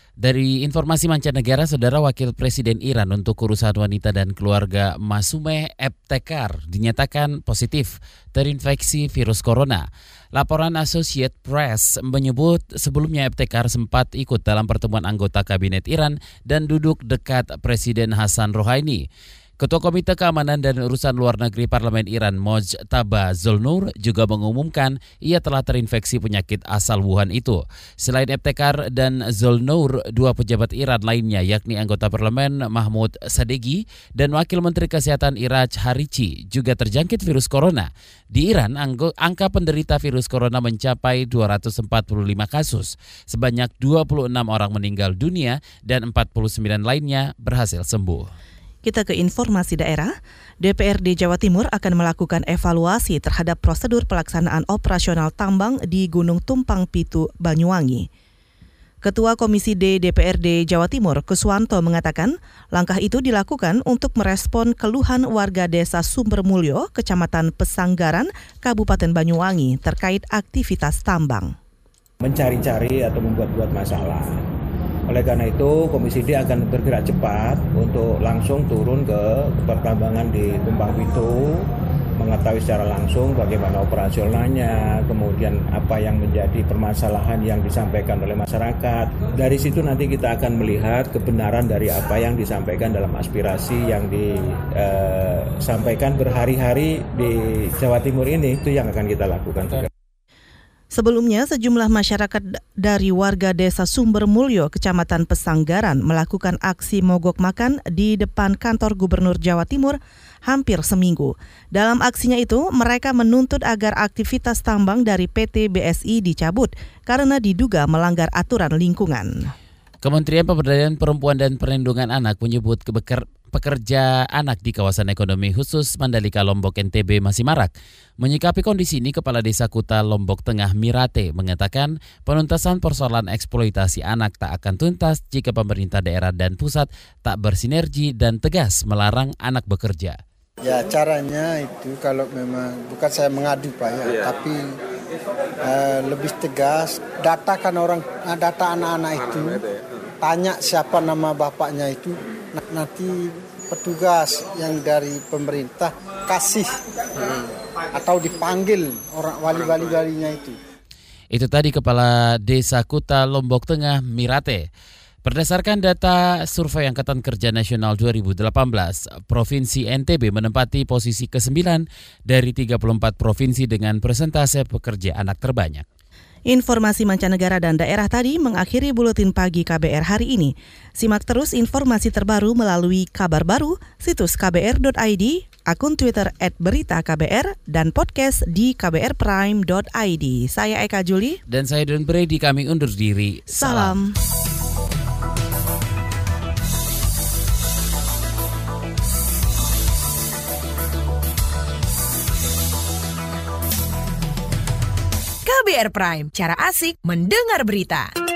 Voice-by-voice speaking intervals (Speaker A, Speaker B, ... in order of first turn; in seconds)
Speaker A: 0.2-19.0, 19.6-48.3, 120.0-140.2, 161.3-164.7, 165.2-175.8, 191.5-193.9
Speaker B: 48.8-58.1, 59.0-71.5, 100.9-119.5, 176.5-191.4, 193.6-194.1
Speaker C: 72.2-74.4, 75.1-99.9
Speaker D: 140.6-144.7, 145.6-149.6, 150.2-156.8, 157.9-160.6
Speaker E: 205.4-208.1